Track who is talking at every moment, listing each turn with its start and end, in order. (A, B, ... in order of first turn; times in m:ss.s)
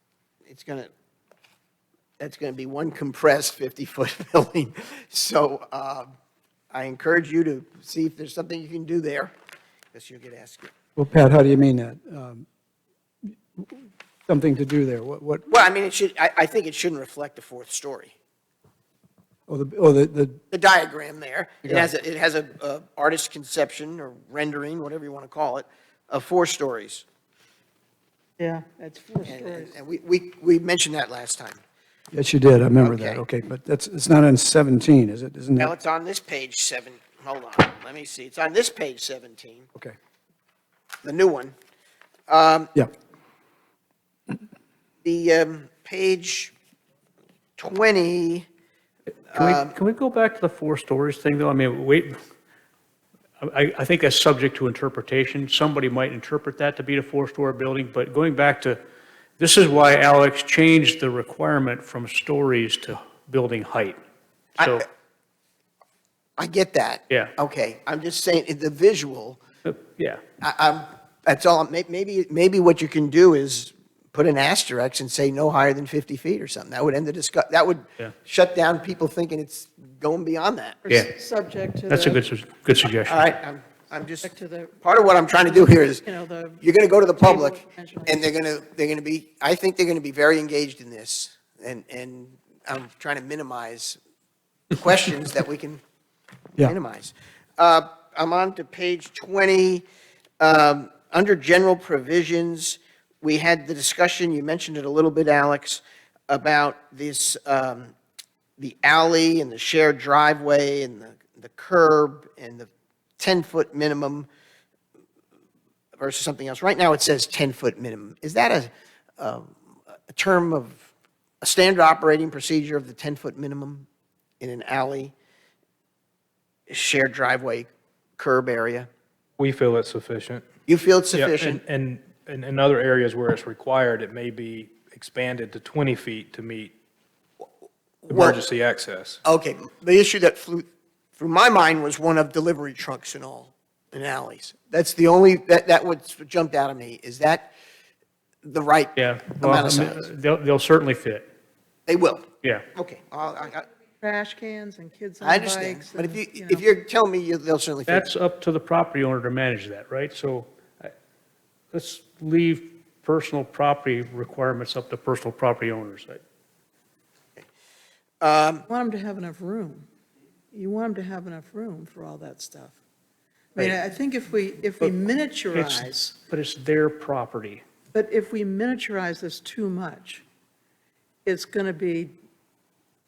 0:00.5-0:00.9 A
0:02.2-0:06.1 A
0:06.7-0:09.3 A
0:09.9-0:10.7 A
0:11.0-0:12.4 B
0:13.6-0:15.4 B
0:15.4-0:18.1 A
0:19.5-0:20.4 B
0:20.5-0:27.0 A
0:28.4-0:29.7 C
0:29.2-0:31.6 A
0:32.1-0:35.7 B
0:32.8-0:33.2 A
0:35.6-0:39.7 A
0:41.0-0:41.5 A
0:42.3-0:42.7 A
0:45.0-0:46.5 A
0:47.6-0:48.5 A
0:49.3-0:49.7 A
0:49.3-0:52.2 D
0:53.4-0:58.8 D
0:59.4-1:04.0 D
1:04.6-1:04.8 D
1:06.4-1:09.4 A
1:09.6-1:10.2 D
1:10.4-1:20.8 A
1:20.8-1:22.2 C
1:21.9-1:23.2 D
1:23.0-1:24.3 A
1:24.2-1:24.8 C
1:24.8-1:26.0 A
1:25.4-1:26.6 C
1:26.6-1:34.0 A
1:27.2-1:28.2 C
1:34.7-1:35.8 A
1:36.6-1:39.8 A
1:40.4-1:47.9 A
1:48.6-1:54.3 A
1:56.0-1:59.5 A
2:00.1-2:00.8 A
2:01.4-2:03.8 A
2:04.4-2:05.1 A
2:06.7-2:08.9 A
2:09.4-2:10.4 E
2:10.7-2:11.6 A
2:11.1-2:16.7 E
2:18.0-2:18.4 A
2:18.1-2:19.2 E
2:19.2-2:27.5 A
2:28.4-2:30.1 A
2:29.0-2:31.3 D
2:31.9-2:33.6 A
2:34.0-2:36.6 C
2:35.2-2:38.1 A
2:37.9-2:40.9 D
2:41.7-2:46.2 D
2:48.2-2:48.7 A
2:48.7-2:49.8 C
2:50.5-2:52.8 C
2:53.6-2:56.1 C
2:55.5-2:57.6 D
2:57.9-3:00.2 C
3:01.2-3:02.2 C